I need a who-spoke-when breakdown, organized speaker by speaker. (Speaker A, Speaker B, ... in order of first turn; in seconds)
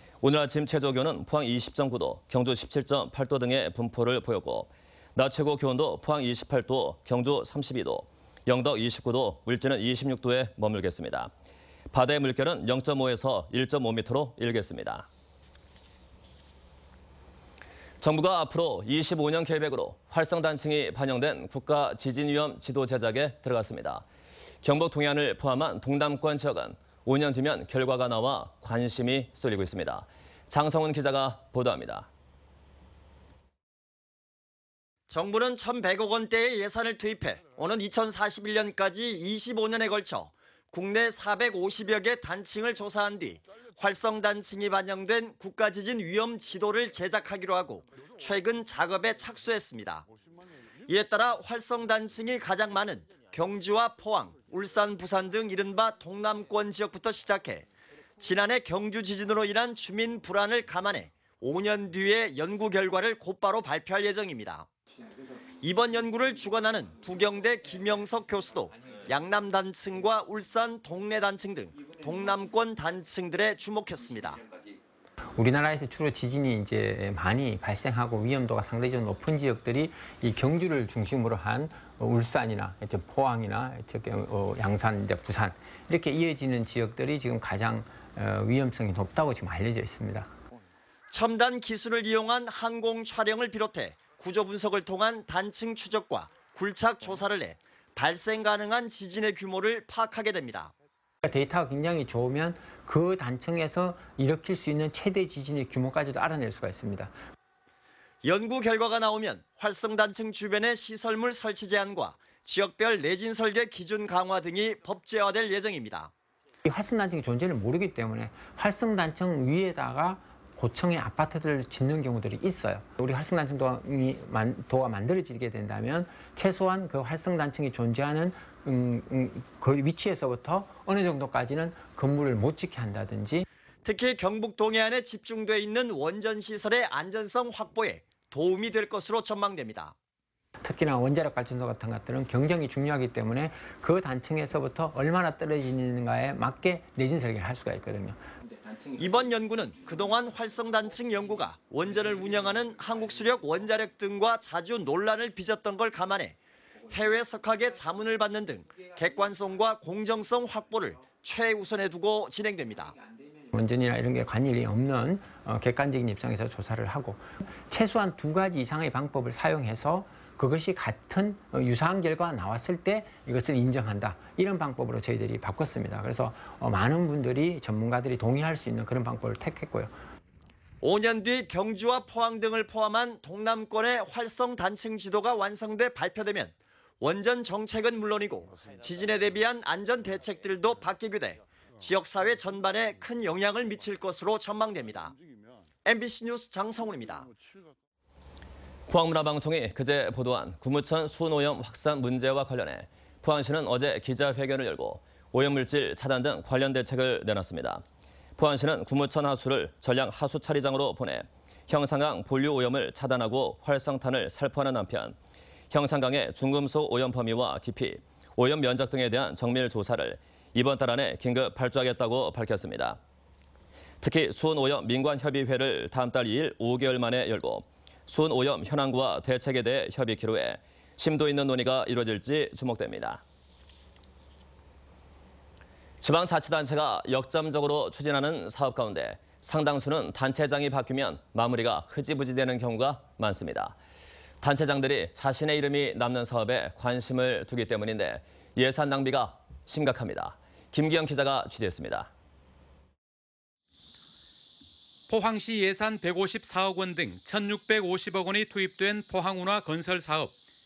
Speaker A: 0.2-11.3, 11.9-15.1, 18.0-24.0, 24.6-32.1, 198.9-207.8, 208.4-215.2, 215.7-223.0, 224.0-233.2, 236.0-243.8, 244.4-252.1
Speaker B: 35.1-50.1, 50.9-57.7, 58.2-64.7, 65.6-74.4, 91.1-100.7, 108.2-116.1, 133.8-139.9, 148.9-156.4, 156.9-162.9, 180.8-195.1, 195.8-197.3
Speaker C: 75.4-90.3, 101.2-107.1, 116.7-133.4, 140.6-148.2, 163.5-179.9
Speaker D: 255.1-260.3